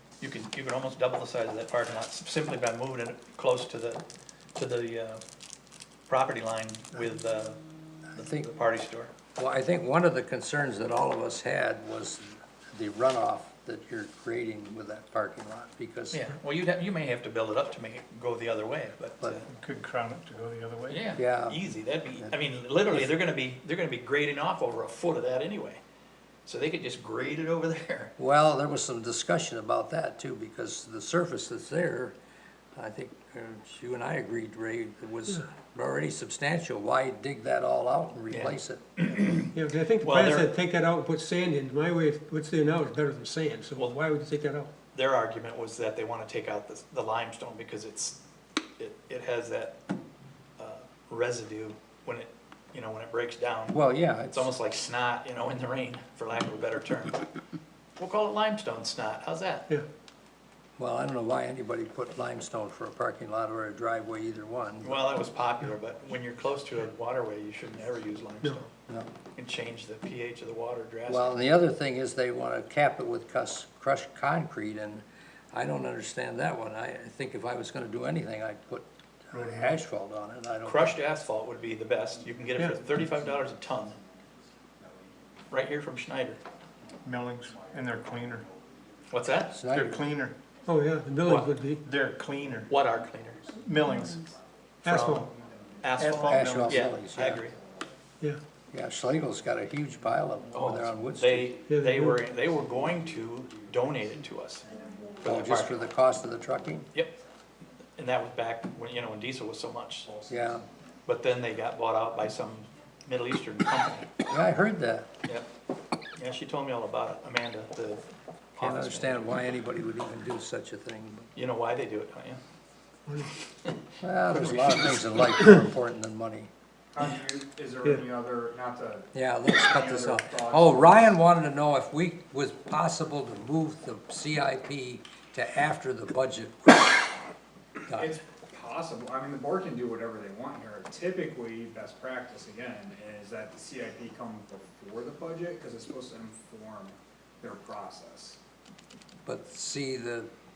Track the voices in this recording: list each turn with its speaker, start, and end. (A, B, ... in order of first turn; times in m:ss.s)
0:00.2-0:04.0 A
0:04.5-0:05.2 A
0:06.1-0:07.6 A
0:08.1-0:08.5 B
0:08.2-0:09.1 A
0:09.4-0:16.2 B
0:16.1-0:19.5 A
0:19.5-0:21.0 C
0:20.9-0:25.8 A
0:21.1-0:21.6 B
0:26.4-0:28.1 A
0:28.2-0:32.1 B
0:32.7-0:39.2 B
0:38.3-0:40.5 A
0:39.5-0:44.7 D
0:44.9-0:48.2 A
0:48.8-0:49.8 A
0:50.6-0:53.8 A
0:53.7-0:54.5 B
0:54.3-0:57.2 A
0:58.0-0:59.7 A
1:00.8-1:05.0 B
1:04.8-1:08.7 A
1:09.4-1:11.4 A
1:11.1-1:21.0 B
1:19.3-1:19.7 C
1:20.6-1:24.0 A
1:21.8-1:25.6 E
1:25.5-1:26.4 A
1:26.4-1:29.8 E
1:27.0-1:28.5 C
1:29.1-1:29.6 A
1:29.5-1:30.0 B
1:29.6-1:30.4 C
1:30.6-1:31.8 D
1:31.2-1:31.5 A
1:31.8-1:32.7 C
1:32.2-1:38.0 E
1:32.7-1:33.4 A
1:33.6-1:34.3 C
1:34.8-1:35.3 D
1:34.9-1:35.2 A
1:35.8-1:37.5 A
1:35.9-1:36.8 C
1:36.2-1:37.4 B
1:38.7-1:41.5 B
1:40.2-1:41.1 E
1:40.5-1:44.6 A
1:41.7-1:42.2 D
1:42.0-1:46.0 E
1:45.2-1:45.8 A
1:45.2-1:46.9 B
1:48.0-1:50.1 A
1:50.0-1:50.8 E
1:50.3-1:50.6 B
1:51.0-1:54.1 A
1:54.3-1:55.1 B
1:56.2-1:58.0 A
1:58.5-1:59.2 A
1:58.6-2:01.3 B
2:01.3-2:02.4 A
2:03.0-2:03.3 D
2:04.0-2:06.5 B
2:04.4-2:05.5 D
2:06.9-2:11.1 E
2:09.1-2:17.1 B
2:17.9-2:18.2 B
2:17.9-2:28.4 E
2:29.2-2:30.3 B